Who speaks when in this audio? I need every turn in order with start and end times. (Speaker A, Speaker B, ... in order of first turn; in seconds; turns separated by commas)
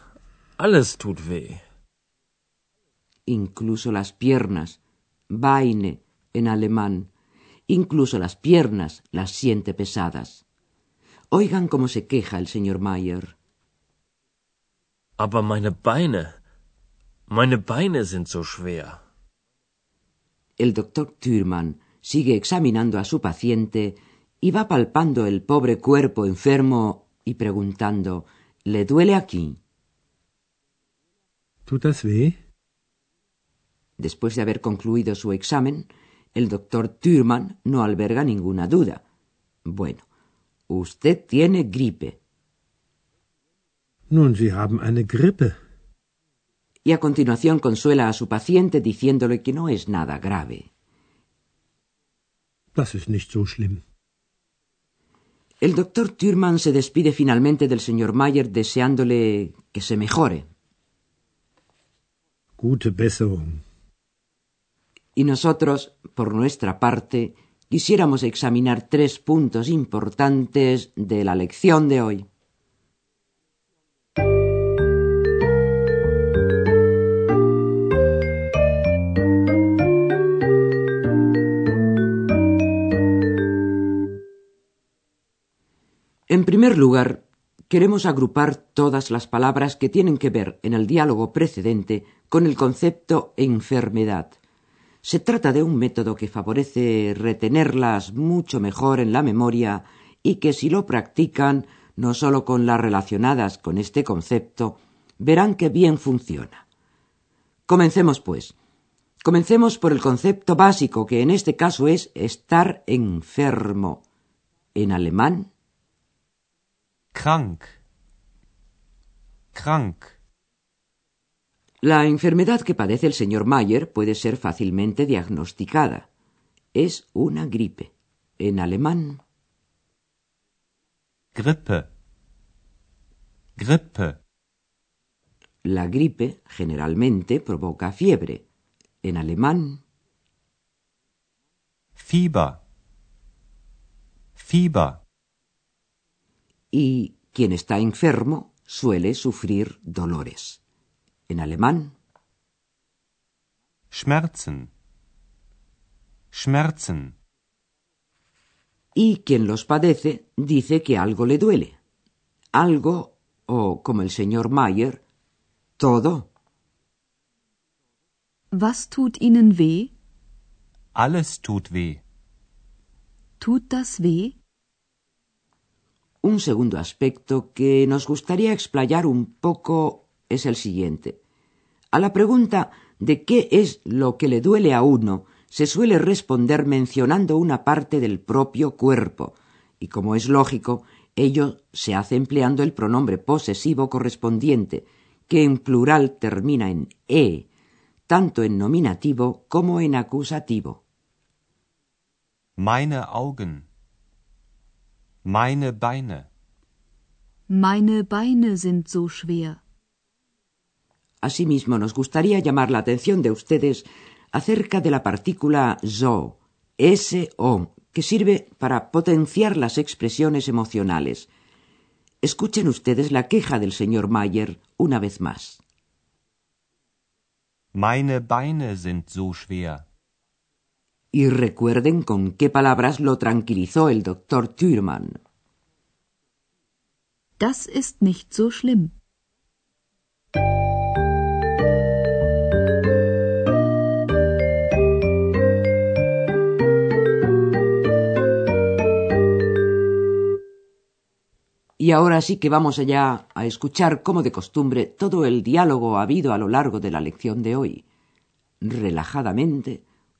Speaker A: 0.6-1.6, Speaker B: 3.3-4.8, Speaker B: 5.3-7.1, Speaker B: 7.7-10.4, Speaker B: 11.3-13.4, Speaker A: 15.2-16.4, Speaker A: 17.3-19.0, Speaker B: 20.6-29.6, Speaker C: 31.7-32.4, Speaker B: 34.0-39.0, Speaker B: 39.7-40.0, Speaker B: 40.7-42.2, Speaker C: 44.1-45.6, Speaker B: 46.9-50.7, Speaker C: 52.8-53.8, Speaker B: 55.6-60.5, Speaker C: 62.6-63.6, Speaker B: 65.2-72.2, Speaker B: 86.3-94.4, Speaker B: 95.0-106.6, Speaker B: 107.7-108.5, Speaker B: 109.2-114.0, Speaker B: 114.8-115.5, Speaker D: 117.1-117.8, Speaker D: 119.5-120.1, Speaker B: 121.8-126.1, Speaker B: 126.7-129.2, Speaker D: 131.3-131.9, Speaker D: 133.6-134.2, Speaker B: 135.6-138.4, Speaker B: 139.0-139.8, Speaker D: 142.0-142.6, Speaker D: 144.4-145.0, Speaker B: 146.7-150.6, Speaker B: 151.3-151.9, Speaker D: 153.9-154.7, Speaker D: 156.3-157.2, Speaker B: 158.9-161.8, Speaker B: 162.5-165.0, Speaker B: 165.8-166.3, Speaker E: 168.5-169.9, Speaker D: 170.9-172.0, Speaker E: 173.4-174.4, Speaker B: 176.2-181.2, Speaker B: 181.9-197.5, Speaker B: 198.1-200.8, Speaker D: 202.6-203.7, Speaker D: 205.2-206.3, Speaker E: 207.5-209.6, Speaker B: 211.2-221.3, Speaker B: 222.2-225.6, Speaker D: 227.7-229.8, Speaker B: 231.1-235.2, Speaker E: 237.4-238.9, Speaker B: 251.8-257.8, Speaker B: 258.6-259.9